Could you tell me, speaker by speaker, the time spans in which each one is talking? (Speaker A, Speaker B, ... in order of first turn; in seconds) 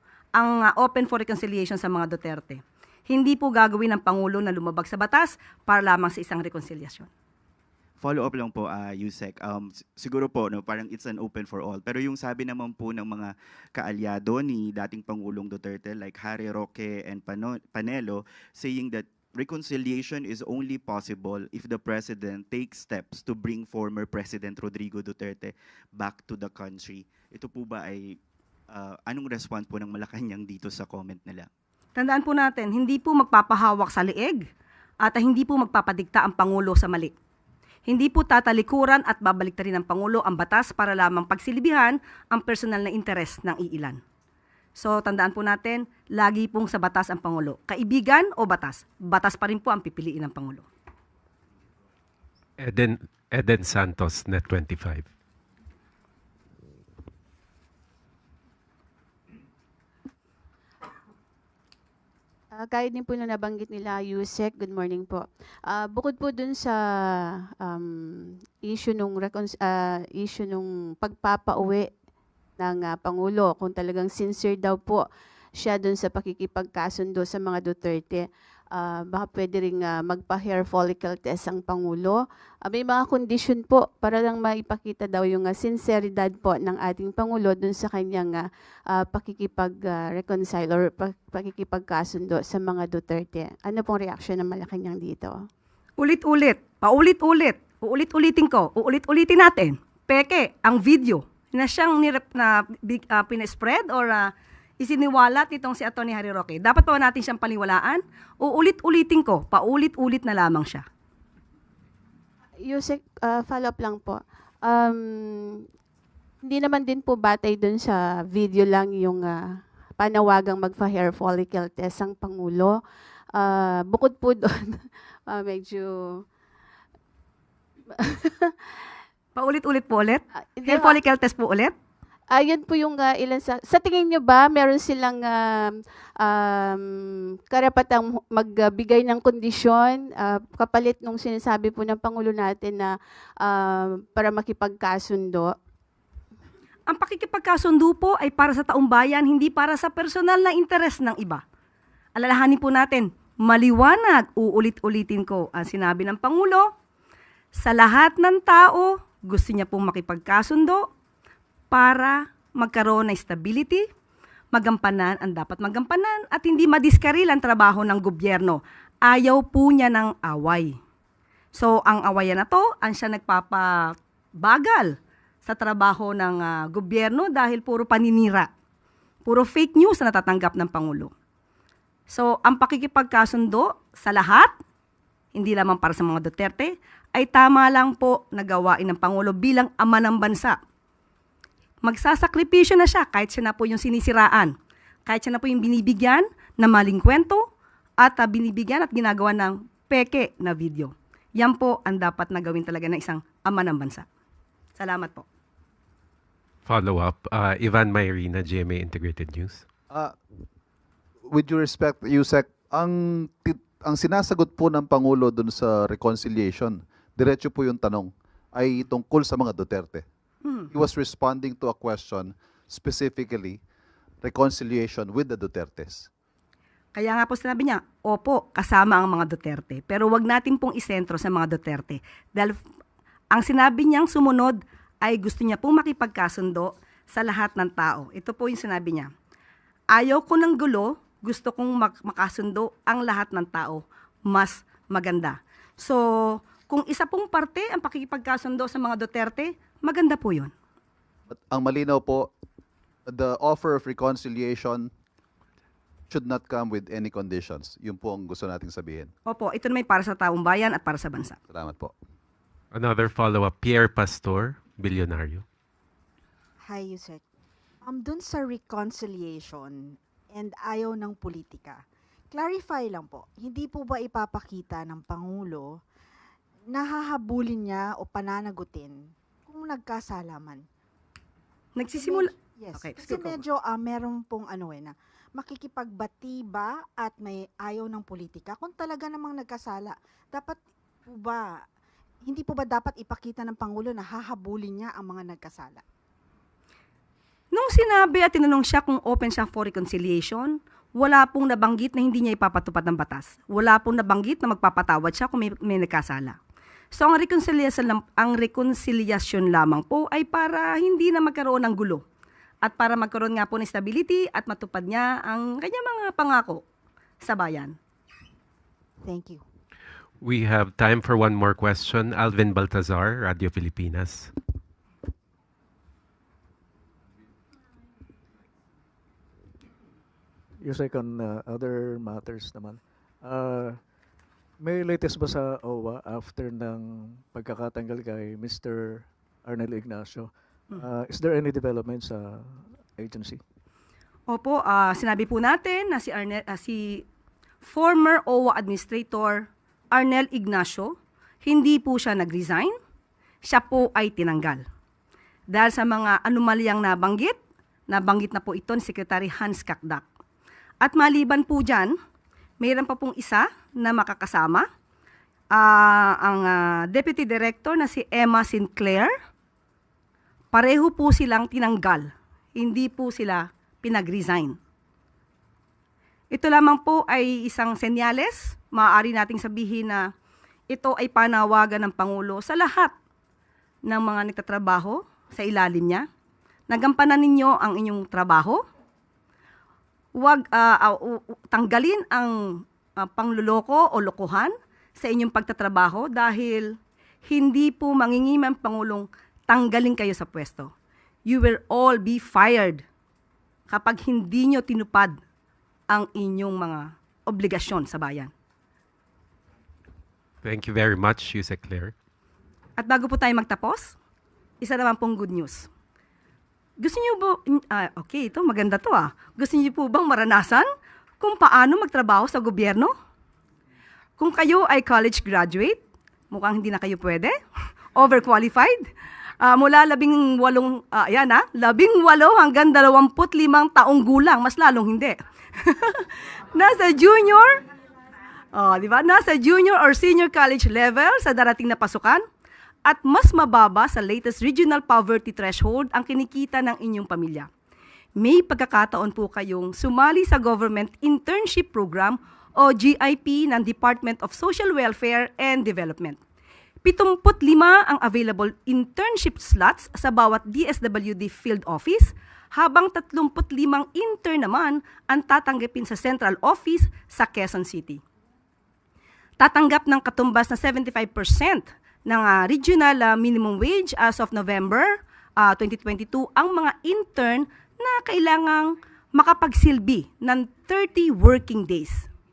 Speaker A: 0.4-7.1, 32.0-34.5, 35.0-37.1, 37.9-44.0, 44.8-50.7, 96.0-110.8, 129.3-131.7, 146.9-151.4, 152.2-156.7, 157.6-160.9, 161.7-163.9, 164.5-170.8, 171.6-178.5, 179.2-181.1, 182.1-184.5, 185.3-190.6, 191.8-194.5, 195.1-197.4, 198.0-204.1, 204.8-205.2, 226.9-232.6, 233.3-239.1, 239.9-250.5, 259.3-261.4, 281.8-283.4, 297.5-306.4, 306.9-312.0, 312.6-316.6, 317.2-317.8, 344.3-347.0, 347.6-352.7, 353.4-354.6, 355.5-357.4, 357.9-360.0, 360.8-361.9, 362.6-364.7, 365.5-369.1, 370.5-374.6, 376.3-380.1, 380.7-382.9, 383.9-386.1, 386.7-388.6, 390.2-400.7, 401.3-402.8, 403.7-405.2, 405.9-408.3, 412.8-413.9, 414.6-415.7, 416.8-420.7, 421.2-422.9, 424.2-425.8, 426.3-427.4, 427.9-428.9, 429.4-437.6, 438.5-442.2, 442.9-447.5, 448.2-456.2, 456.8-468.0, 469.4-482.1
Speaker B: 8.4-13.3, 15.2-15.8, 16.6-19.1, 19.7-20.3, 21.1-25.5, 26.2-27.9, 29.3-31.5
Speaker C: 52.6-55.1, 206.7-209.7, 262.7-265.5, 320.2-324.3, 410.4-411.9
Speaker D: 62.5-66.8, 67.3-71.9, 72.6-75.0, 75.6-95.3, 112.7-115.6, 116.4-119.4, 120.0-122.8, 123.3-124.8, 125.3-126.2, 128.0-128.5, 130.6-131.0, 132.3-136.8, 137.5-145.5
Speaker E: 209.9-210.2, 211.3-220.0, 220.7-223.6, 224.2-226.1, 251.3-252.3, 253.1-254.9, 256.1-259.1, 261.5-261.9
Speaker F: 266.6-267.2, 267.8-275.8, 276.7-280.6, 282.0-291.6, 292.2-295.8, 319.0-319.4
Speaker G: 330.6-333.9, 334.6-343.4